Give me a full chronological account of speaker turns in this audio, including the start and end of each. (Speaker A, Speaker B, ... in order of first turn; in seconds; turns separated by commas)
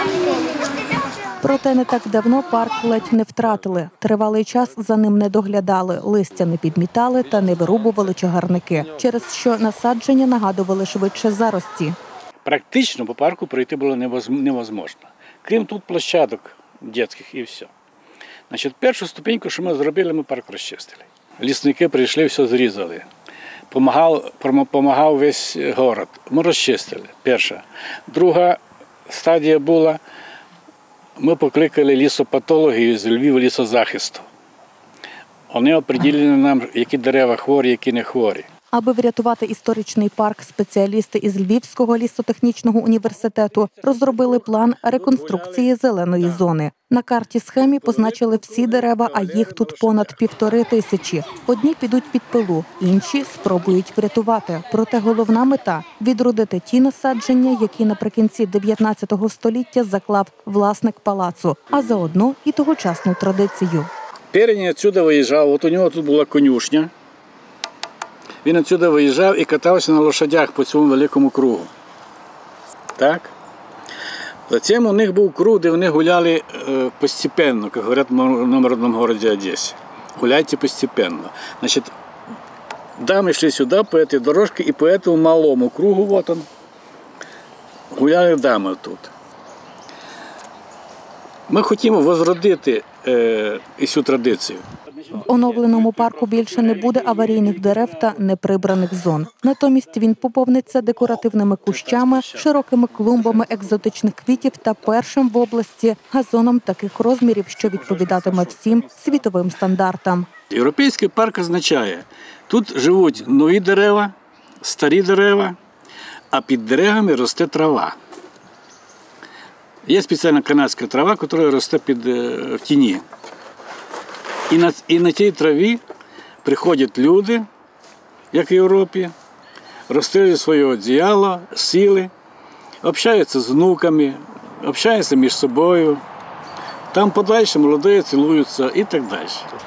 Speaker A: 1.4-12.0, Speaker B: 12.4-17.7, Speaker B: 18.5-23.1, Speaker B: 23.7-30.0, Speaker B: 31.2-34.3, Speaker B: 35.5-38.5, Speaker A: 38.7-63.9, Speaker B: 43.7-45.7, Speaker B: 47.6-50.2, Speaker B: 64.3-66.9, Speaker B: 68.4-71.7, Speaker B: 73.0-73.3, Speaker B: 74.5-81.9, Speaker B: 83.0-86.5, Speaker B: 87.9-89.1, Speaker B: 91.5-98.2, Speaker A: 95.1-110.3, Speaker B: 101.8-102.4, Speaker B: 110.5-115.5, Speaker B: 116.3-118.0, Speaker B: 119.8-123.0, Speaker B: 124.5-125.8, Speaker B: 126.4-127.5, Speaker B: 128.3-129.1, Speaker B: 129.9-132.1, Speaker B: 132.8-136.0, Speaker B: 136.9-139.5